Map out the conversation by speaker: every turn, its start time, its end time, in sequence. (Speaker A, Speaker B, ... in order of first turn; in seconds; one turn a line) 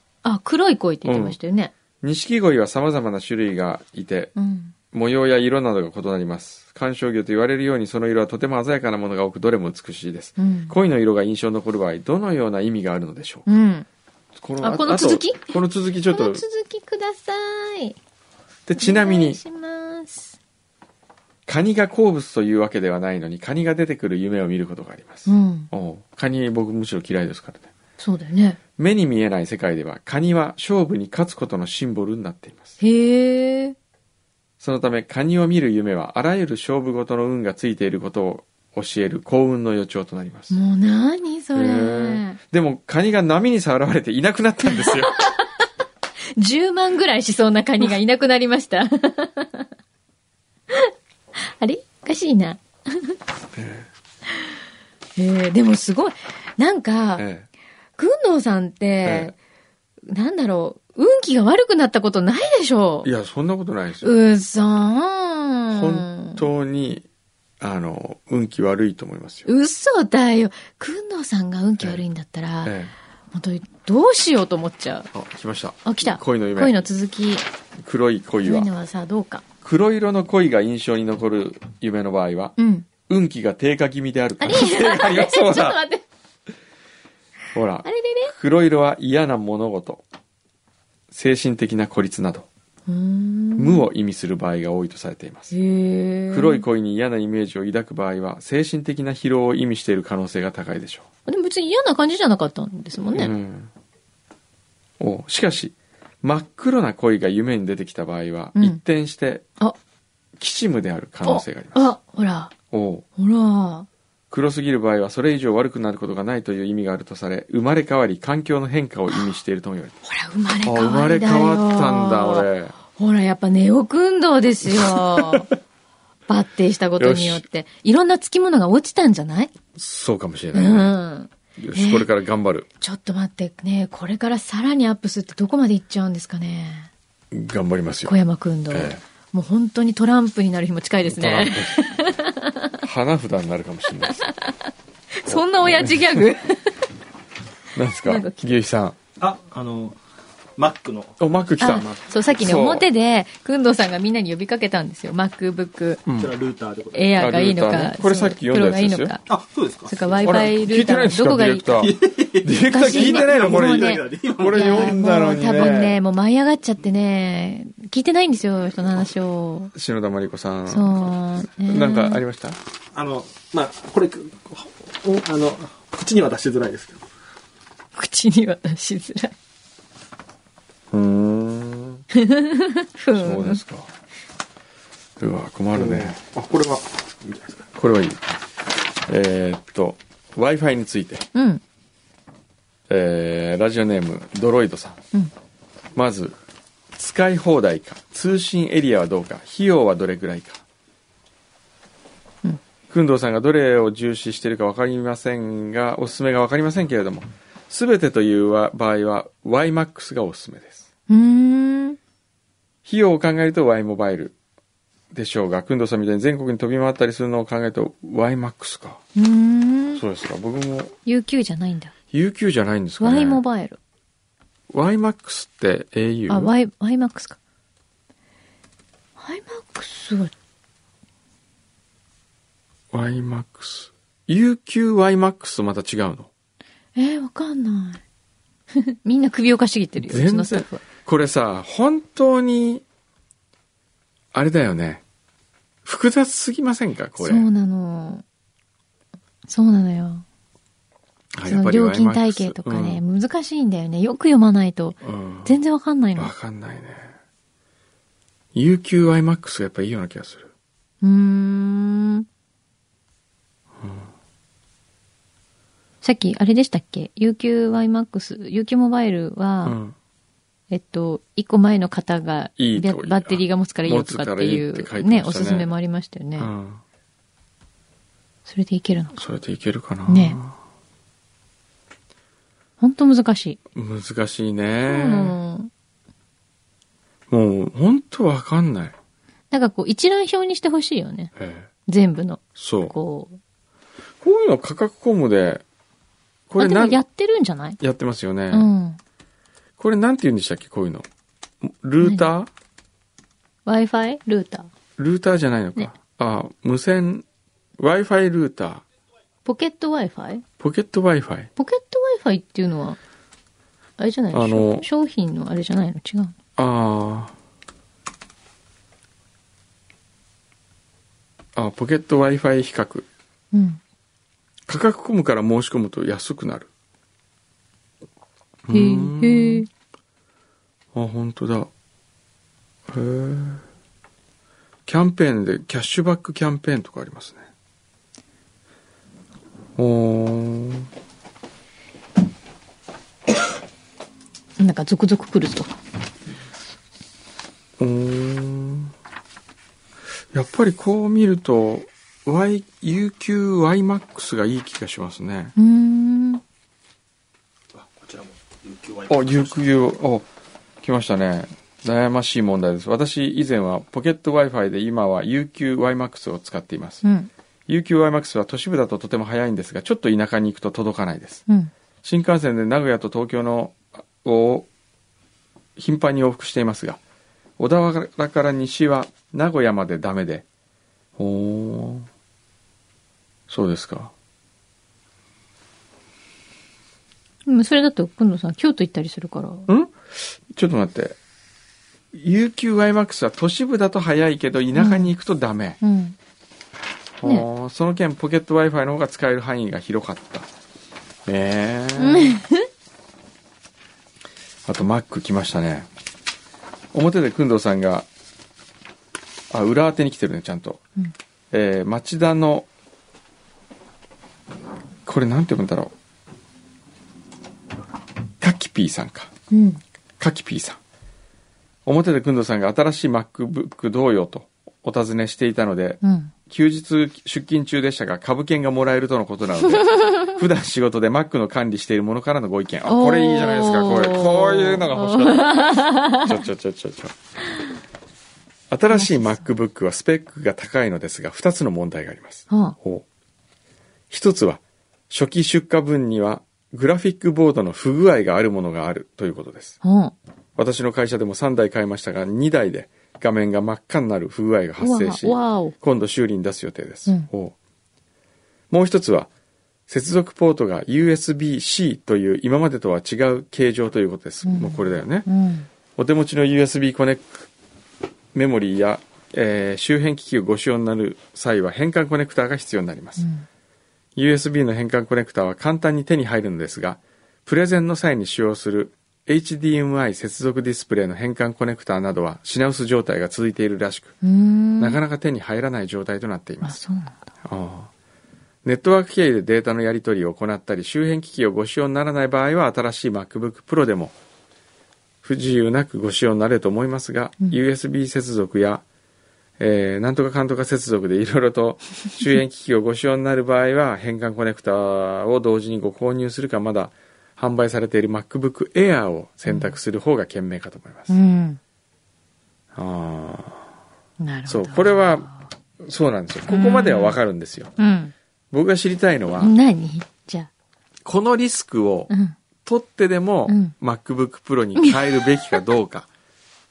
Speaker A: 0.2-1.7
Speaker B: 1.0-1.4
Speaker B: 2.0-4.3
Speaker A: 4.3-4.7
Speaker B: 4.9-13.5
Speaker A: 10.4-10.8
Speaker A: 13.5-13.8
Speaker B: 14.3-16.4
Speaker A: 14.6-15.6
Speaker A: 16.1-17.9
Speaker B: 18.7-19.4
Speaker A: 18.8-20.4
Speaker B: 21.5-27.7
Speaker A: 25.2-25.7
Speaker A: 28.0-28.6
Speaker B: 28.8-32.8
Speaker A: 32.8-33.8
Speaker B: 34.6-40.5
Speaker A: 40.5-42.4
Speaker B: 41.5-45.2
Speaker A: 44.7-45.5
Speaker A: 46.4-49.7
Speaker A: 50.7-53.1
Speaker B: 53.5-53.9
Speaker A: 55.2-57.3
Speaker B: 57.2-57.5
Speaker A: 58.0-59.3
Speaker B: 59.0-59.3
Speaker A: 60.1-63.1
Speaker B: 63.0-64.2
Speaker A: 64.0-66.4
Speaker B: 65.7-67.0
Speaker B: 67.6-69.5
Speaker A: 69.5-72.7
Speaker B: 72.6-72.9
Speaker A: 73.3-75.1
Speaker B: 75.1-76.8
Speaker A: 75.8-77.5
Speaker B: 77.8-78.7
Speaker A: 78.4-79.4
Speaker B: 79.6-85.8
Speaker A: 82.6-82.9
Speaker A: 84.4-86.0
Speaker B: 87.5-90.0
Speaker A: 87.8-88.3
Speaker B: 91.1-92.5
Speaker A: 92.9-93.8
Speaker B: 93.6-95.5
Speaker A: 95.5-96.6
Speaker B: 96.3-101.1
Speaker A: 101.3-103.3
Speaker B: 103.1-103.7
Speaker B: 105.0-109.5
Speaker B: 110.4-111.9
Speaker A: 111.2-112.5
Speaker B: 112.7-113.0
Speaker A: 113.2-113.9
Speaker B: 114.3-120.0
Speaker A: 120.0-125.5
Speaker B: 120.6-122.7
Speaker B: 124.7-125.4
Speaker A: 126.3-129.5
Speaker B: 127.0-127.4
Speaker B: 129.7-130.9
Speaker A: 130.5-132.1
Speaker B: 131.6-132.7
Speaker A: 132.8-136.9
Speaker B: 137.3-138.1
Speaker A: 138.1-142.7
Speaker B: 138.7-139.0
Speaker B: 141.1-141.9
Speaker B: 142.8-144.3
Speaker A: 144.2-144.5
Speaker A: 145.1-146.9
Speaker B: 145.3-146.3
Speaker B: 147.7-149.0
Speaker A: 148.0-148.5
Speaker C: 149.2-150.0
Speaker C: 150.6-152.2
Speaker B: 151.2-152.9
Speaker A: 151.6-156.0
Speaker B: 156.1-156.3
Speaker C: 156.2-157.1
Speaker A: 156.9-159.2
Speaker B: 157.2-159.2
Speaker C: 159.3-160.5
Speaker A: 159.8-161.9
Speaker B: 160.2-166.0
Speaker C: 161.8-165.9
Speaker A: 162.6-169.7
Speaker B: 169.7-172.6
Speaker A: 170.7-172.2
Speaker C: 172.9-177.0
Speaker A: 177.9-179.3
Speaker B: 180.9-182.0
Speaker A: 182.1-183.6
Speaker B: 183.1-183.9
Speaker B: 185.2-186.2
Speaker C: 185.7-187.7
Speaker B: 187.8-188.2
Speaker B: 189.0-191.3
Speaker A: 191.3-191.6
Speaker B: 192.9-195.0
Speaker B: 195.9-196.3
Speaker B: 196.9-200.6
Speaker B: 202.9-210.8
Speaker A: 211.1-212.0
Speaker B: 212.8-214.3
Speaker B: 215.1-219.0
Speaker A: 219.2-220.0
Speaker B: 219.9-220.9
Speaker A: 221.1-221.9
Speaker B: 222.1-223.4
Speaker A: 223.0-223.8
Speaker B: 224.7-226.5
Speaker A: 226.3-227.4
Speaker A: 229.2-230.3
Speaker B: 232.9-236.3
Speaker A: 236.9-238.0
Speaker A: 238.7-240.8
Speaker B: 240.0-242.8
Speaker B: 244.3-245.0
Speaker B: 245.8-247.5
Speaker A: 247.2-248.2
Speaker A: 249.5-250.2
Speaker B: 251.3-253.0
Speaker A: 251.4-256.3
Speaker B: 255.0-255.5
Speaker B: 256.1-257.1
Speaker B: 258.5-260.5
Speaker A: 261.0-262.2
Speaker B: 263.8-264.1
Speaker A: 266.0-269.8
Speaker B: 269.6-269.9
Speaker A: 270.7-276.5
Speaker B: 272.6-275.7
Speaker B: 276.4-276.8
Speaker A: 278.4-279.2
Speaker B: 279.1-280.5
Speaker A: 280.1-280.4
Speaker A: 282.8-283.6
Speaker B: 283.7-285.4
Speaker A: 284.9-285.7
Speaker B: 287.3-288.9
Speaker A: 289.5-291.3
Speaker B: 291.4-291.7
Speaker A: 291.9-293.4
Speaker B: 292.6-292.9
Speaker B: 294.2-295.6
Speaker B: 296.5-297.0
Speaker A: 296.6-297.8
Speaker B: 297.8-298.7
Speaker A: 298.5-299.0
Speaker B: 299.8-301.1
Speaker B: 301.6-302.5
Speaker A: 302.0-302.3
Speaker A: 303.6-304.7
Speaker B: 305.0-307.2
Speaker B: 307.8-308.8
Speaker A: 309.4-310.4
Speaker B: 310.6-311.5
Speaker A: 311.6-313.0
Speaker A: 314.0-316.3
Speaker B: 314.3-314.9
Speaker B: 316.6-317.3
Speaker B: 321.5-323.1
Speaker A: 323.5-323.8
Speaker B: 324.7-326.7
Speaker B: 328.7-329.7
Speaker A: 328.7-329.7
Speaker B: 330.9-331.7
Speaker B: 332.9-333.6
Speaker B: 334.9-337.5
Speaker B: 339.8-340.9
Speaker A: 344.6-345.7
Speaker B: 347.8-348.9
Speaker B: 350.3-355.5
Speaker A: 355.6-356.4
Speaker C: 357.7-359.6
Speaker B: 359.1-360.3
Speaker B: 360.8-367.0
Speaker A: 367.0-367.3
Speaker B: 367.7-371.4
Speaker B: 372.0-374.7
Speaker B: 375.8-377.0
Speaker B: 377.6-380.4
Speaker B: 381.2-382.1
Speaker B: 383.5-384.1
Speaker A: 387.4-389.7
Speaker B: 389.7-391.2
Speaker B: 392.1-395.8
Speaker A: 394.7-395.1
Speaker A: 395.8-396.1
Speaker B: 397.2-400.5
Speaker B: 401.2-402.4
Speaker A: 402.0-402.7
Speaker B: 404.6-405.9
Speaker B: 406.9-408.1
Speaker B: 409.5-410.8
Speaker B: 411.5-412.7
Speaker B: 415.0-415.9
Speaker B: 418.4-419.3
Speaker A: 419.5-419.8
Speaker B: 420.2-420.8
Speaker B: 421.8-437.1
Speaker A: 426.0-426.3
Speaker A: 432.8-436.4
Speaker B: 438.7-443.0
Speaker A: 438.9-439.5
Speaker A: 442.5-442.8
Speaker B: 444.1-449.8
Speaker A: 449.8-450.1
Speaker B: 450.6-457.5
Speaker A: 454.8-455.7
Speaker B: 458.7-459.3
Speaker B: 459.9-465.3
Speaker A: 464.4-465.7
Speaker B: 465.9-467.5
Speaker B: 468.3-473.2
Speaker A: 473.2-473.4
Speaker B: 474.1-484.1
Speaker A: 484.2-485.0
Speaker B: 484.8-486.8
Speaker A: 486.6-487.3
Speaker B: 487.4-487.9
Speaker B: 488.6-494.1
Speaker B: 495.2-498.8
Speaker B: 499.6-511.1
Speaker A: 509.5-509.7
Speaker A: 511.1-511.6
Speaker B: 512.7-513.6
Speaker A: 514.2-515.4
Speaker B: 514.5-517.7
Speaker A: 516.5-517.2
Speaker A: 517.8-518.1
Speaker B: 518.5-519.5
Speaker A: 519.4-520.5
Speaker B: 521.0-522.1
Speaker A: 522.1-522.4
Speaker B: 522.6-526.1
Speaker A: 523.5-523.7